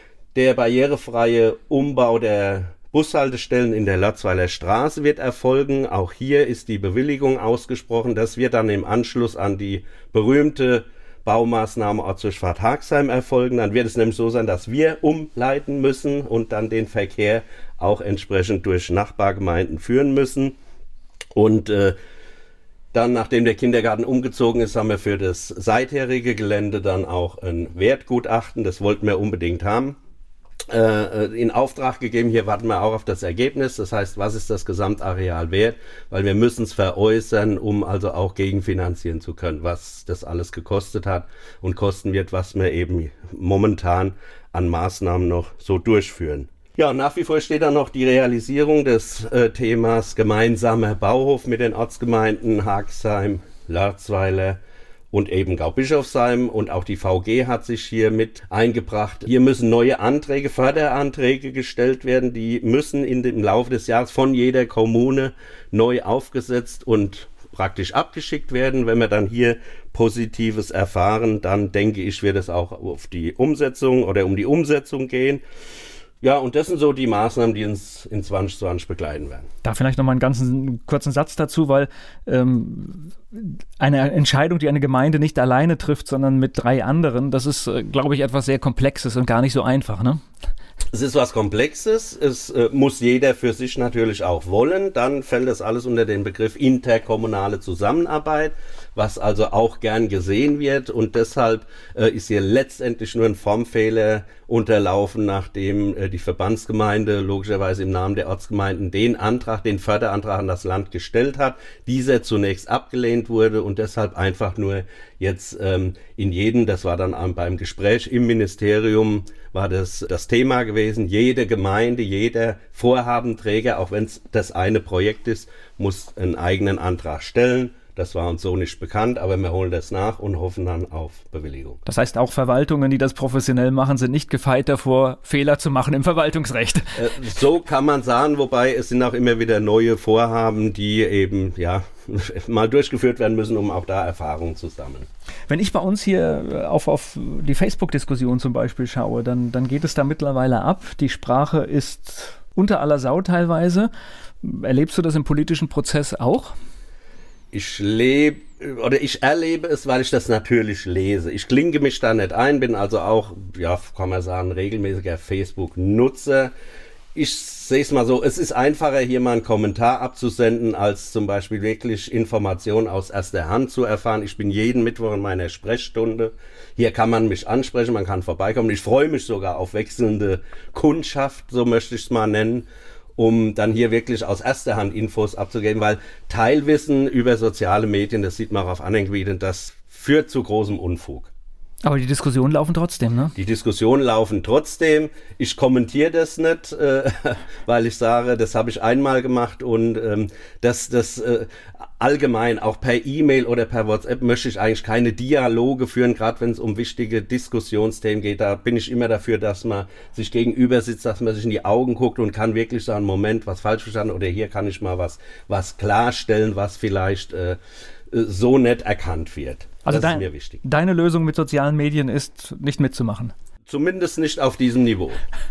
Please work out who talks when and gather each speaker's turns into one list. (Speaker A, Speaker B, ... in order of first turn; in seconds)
Speaker A: 0.3-20.6, 21.4-22.0, 22.9-30.0, 30.7-54.6, 55.1-75.4, 76.2-79.5, 90.9-131.8, 136.9-145.1, 157.5-166.5, 167.2-191.3, 193.4-217.6, 218.1-220.6, 223.7-225.2
Speaker B: 79.6-90.2, 131.9-137.0, 145.5-153.9, 154.4-156.6, 191.8-193.3, 219.8-223.3